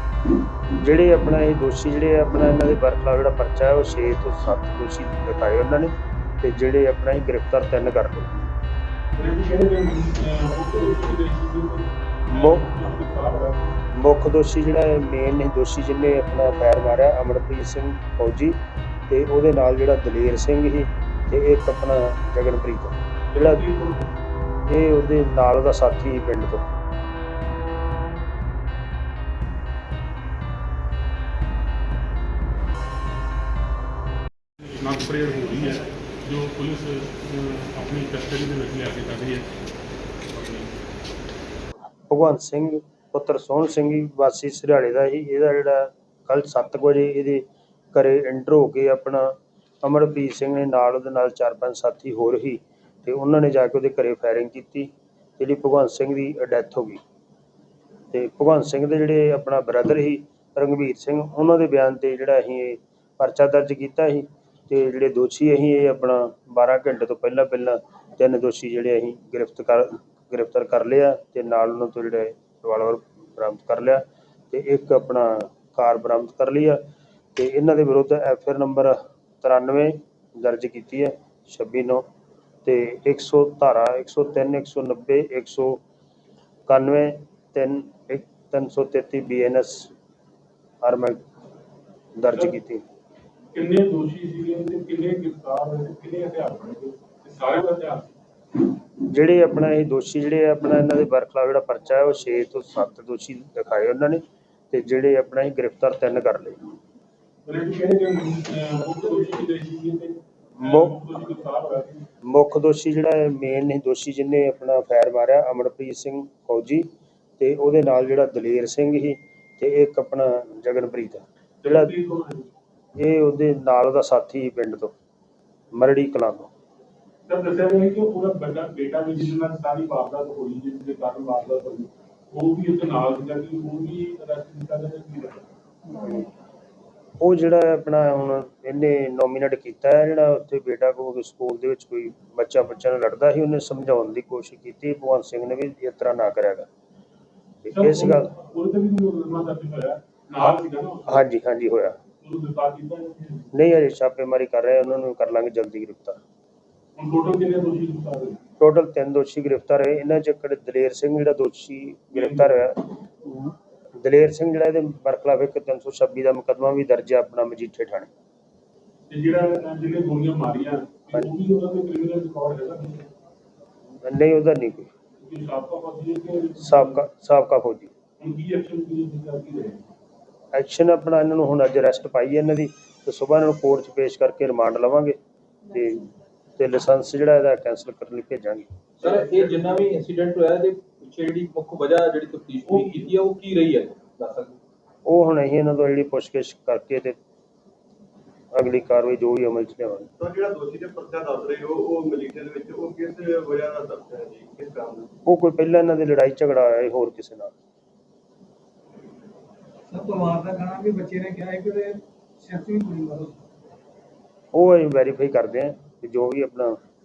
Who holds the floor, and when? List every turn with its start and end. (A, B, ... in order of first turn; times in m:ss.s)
0:00.7-0:08.5 A
0:09.2-0:13.8 B
0:12.3-0:12.6 A
0:13.9-0:23.6 A
0:23.3-0:24.1 B
0:24.6-0:26.6 A
0:34.6-0:39.4 B
0:40.3-0:40.7 B
0:42.1-0:57.0 A
0:58.1-1:16.8 A
1:17.3-1:22.0 A
1:22.6-1:25.8 A
1:26.7-1:29.9 A
1:30.8-1:31.2 A
1:32.2-1:32.8 A
1:33.5-1:38.1 B
1:39.0-1:46.7 A
1:47.4-1:52.1 B
1:50.6-1:51.0 A
1:52.2-1:56.9 A
1:57.4-2:01.9 A
2:01.6-2:02.5 B
2:03.0-2:04.9 A
2:05.7-2:06.5 A
2:07.3-2:15.4 B
2:15.9-2:16.2 A
2:17.2-2:26.7 A
2:27.6-2:28.3 A
2:27.7-2:31.3 B
2:31.1-2:32.0 A
2:32.2-2:33.5 B
2:33.5-2:36.2 A
2:37.0-2:38.4 B
2:38.6-2:48.1 A
2:42.1-2:42.5 B
2:49.1-2:53.0 B
2:54.0-2:54.9 A
2:55.2-2:57.0 B
2:56.6-2:57.9 A
2:58.2-2:59.8 B
3:00.5-3:05.2 A
3:05.7-3:08.7 A
3:09.0-3:14.6 C
3:15.0-3:17.2 A
3:18.5-3:20.1 A
3:20.2-3:25.1 D
3:25.2-3:27.5 A
3:29.9-3:33.4 E
3:34.5-3:36.8 A